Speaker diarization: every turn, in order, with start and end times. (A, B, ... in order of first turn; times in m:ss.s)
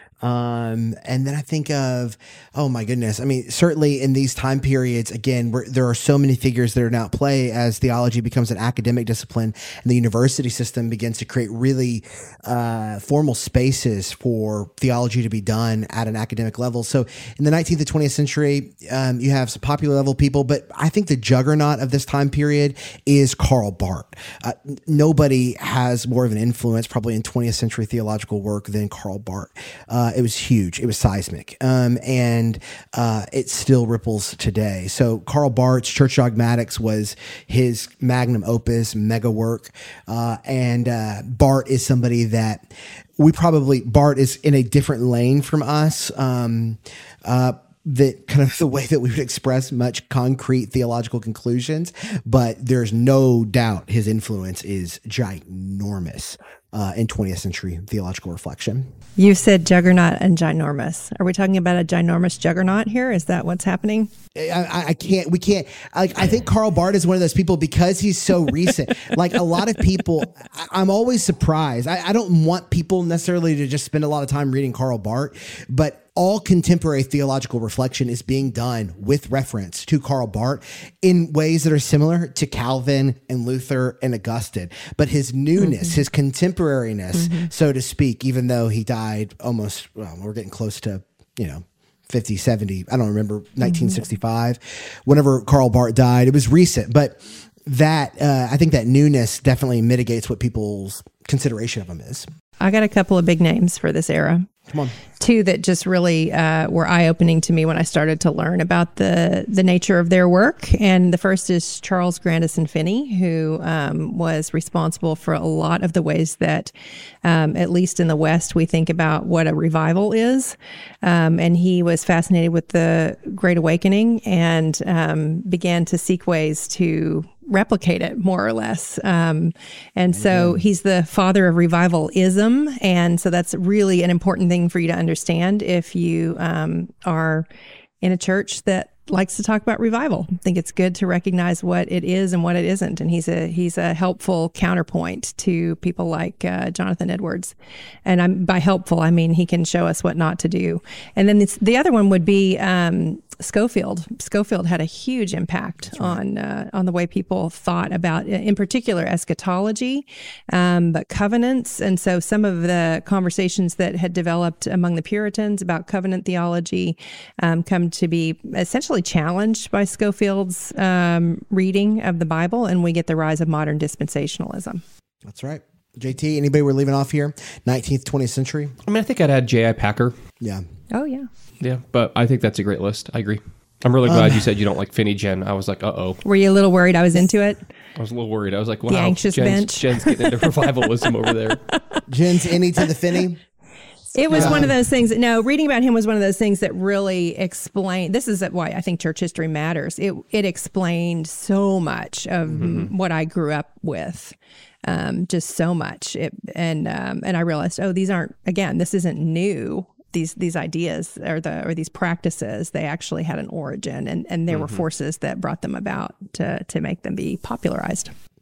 0:00.2-0:58.9 A
0:59.2-1:04.1 B
1:04.4-1:42.3 A
1:27.2-1:27.5 B
1:42.6-1:44.5 B
1:44.7-1:45.0 A
1:45.2-1:56.7 B
1:57.2-2:17.5 B
2:10.1-2:10.6 A
2:18.0-2:27.6 B
2:28.1-2:54.8 B
2:35.9-2:36.2 A
2:55.2-2:58.8 A
2:58.9-3:00.2 C
3:00.9-3:01.3 B
3:01.6-3:06.2 C
3:04.0-3:04.5 A
3:06.2-3:07.6 B
3:08.0-3:11.6 C
3:08.9-3:10.8 B
3:11.7-3:12.0 B
3:12.1-3:13.4 A
3:14.2-3:24.4 B
3:14.3-3:14.7 A
3:14.3-3:14.7 C
3:22.5-3:22.9 C
3:24.9-3:38.1 B
3:34.5-3:34.8 C